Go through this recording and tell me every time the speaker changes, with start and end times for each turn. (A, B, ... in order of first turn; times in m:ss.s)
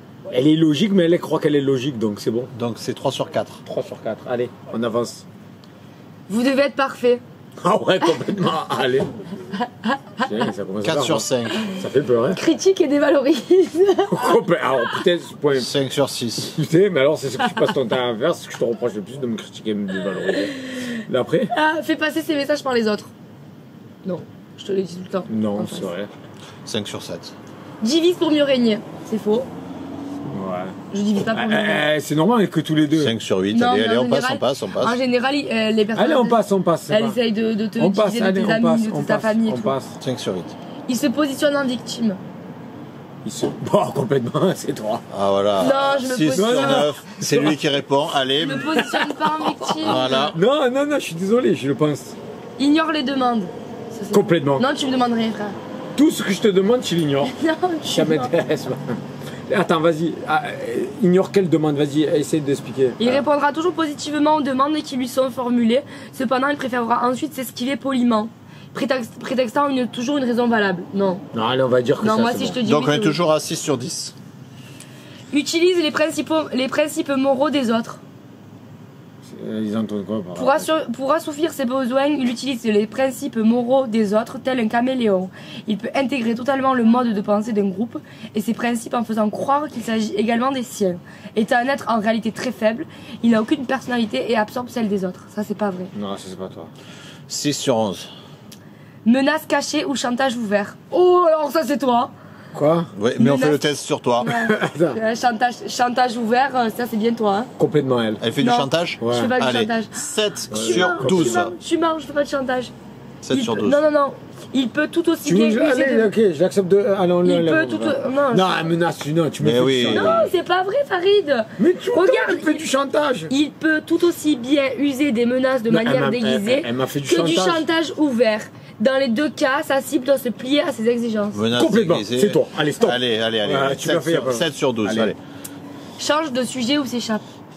0:00.3-0:02.5 A
0:02.5-0:03.6 B
0:03.6-0:05.3 A
0:06.3-0:07.2 C
0:07.6-0:09.1 A
0:09.6-0:10.2 C
0:10.2-0:12.4 A
0:10.8-0:11.6 B
0:11.5-0:14.4 C
0:14.1-0:15.7 A
0:15.5-0:16.6 B
0:16.5-0:21.5 A
0:21.5-0:23.1 C
0:24.0-0:25.9 C
0:25.3-0:26.1 A
0:26.6-0:27.3 B
0:27.8-0:29.5 C
0:30.3-0:30.8 A
0:30.9-0:31.8 C
0:31.3-0:33.2 A
0:32.9-0:35.0 B
0:33.5-0:39.8 C
0:36.0-0:37.2 A
0:37.8-0:40.0 A
0:40.0-0:40.5 B
0:40.9-0:42.2 C
0:43.2-0:45.0 A
0:45.1-0:48.8 B
0:45.6-0:46.9 C
0:46.3-0:47.6 A
0:48.4-0:50.3 C
0:48.7-0:52.2 A
0:49.9-0:50.4 B
0:52.6-0:55.6 C
0:54.1-0:54.7 A
0:56.0-0:57.3 A
0:57.2-0:58.3 C
0:57.9-1:03.2 A
1:03.0-1:11.2 C
1:11.3-1:12.6 A
1:12.0-1:13.2 C
1:12.6-1:14.2 B
1:15.3-1:18.0 C
1:19.2-1:20.7 A
1:20.4-1:35.9 C
1:35.9-1:36.7 A
1:37.3-1:38.1 B
1:39.0-1:42.1 C
1:42.5-1:42.9 A
1:43.0-1:44.3 B
1:43.2-1:43.6 C
1:44.2-1:47.5 C
1:44.3-1:45.0 A
1:47.6-1:48.2 A
1:48.2-1:51.6 B
1:48.4-1:52.7 C
1:49.0-1:49.3 A
1:50.5-1:51.4 A
1:53.2-1:53.8 B
1:53.3-1:56.1 C
1:55.2-2:00.3 A
1:57.2-1:58.7 C
1:59.4-2:00.2 B
1:59.9-2:02.7 C
2:01.6-2:03.3 A
2:03.3-2:11.4 C
2:05.7-2:07.7 A
2:11.3-2:15.2 B
2:11.5-2:15.1 A
2:16.0-2:17.2 C